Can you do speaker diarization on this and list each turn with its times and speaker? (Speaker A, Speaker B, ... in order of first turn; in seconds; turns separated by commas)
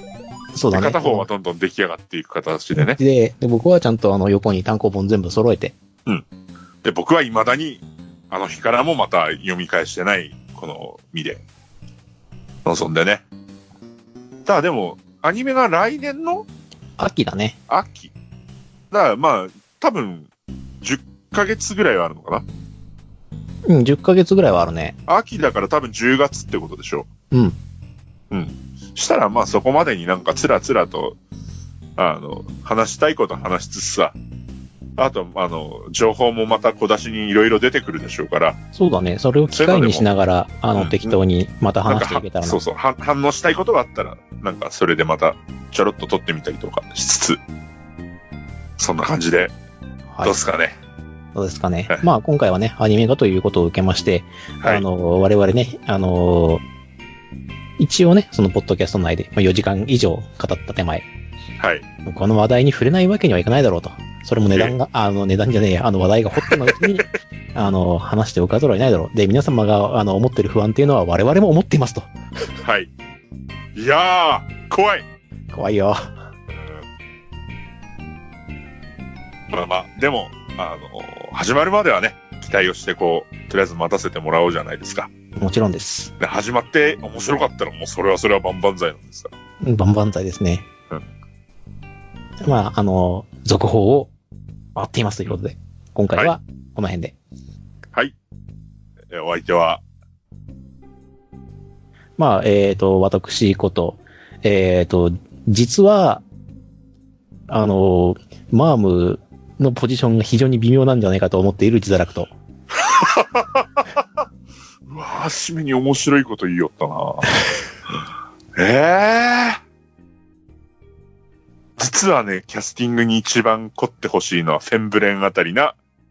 Speaker A: 0.5-1.3, Speaker B: 0.7-3.0, Speaker A: 2.7-5.7, Speaker B: 6.8-11.4, Speaker B: 12.6-13.2, Speaker B: 14.4-16.4, Speaker A: 17.0-17.6, Speaker B: 17.7-18.1, Speaker B: 18.9-20.3, Speaker B: 20.8-22.4, Speaker A: 23.6-24.9, Speaker B: 25.1-27.1, Speaker A: 27.3-27.6, Speaker B: 28.3-31.2, Speaker B: 32.0-34.1, Speaker B: 35.0-38.6, Speaker A: 38.7-42.6, Speaker B: 39.5-40.1, Speaker B: 40.7-41.1, Speaker B: 41.9-47.4, Speaker B: 48.8-49.5, Speaker B: 50.2-50.8, Speaker A: 51.3-56.6, Speaker A: 57.8-61.1, Speaker B: 61.6-61.8, Speaker A: 62.0-72.1, Speaker B: 66.5-66.8, Speaker B: 72.6-72.9, Speaker B: 73.7-75.0, Speaker A: 75.5-76.1, Speaker B: 76.5-76.8, Speaker B: 79.5-85.1, Speaker A: 85.3-86.1, Speaker B: 86.2-89.3, Speaker A: 89.6-90.7, Speaker A: 92.4-94.1, Speaker A: 94.7-97.1, Speaker B: 99.1-99.8, Speaker A: 102.2-106.2, Speaker A: 107.5-112.3, Speaker B: 112.7-113.8, Speaker B: 114.9-117.4, Speaker B: 118.5-119.6, Speaker B: 121.8-125.8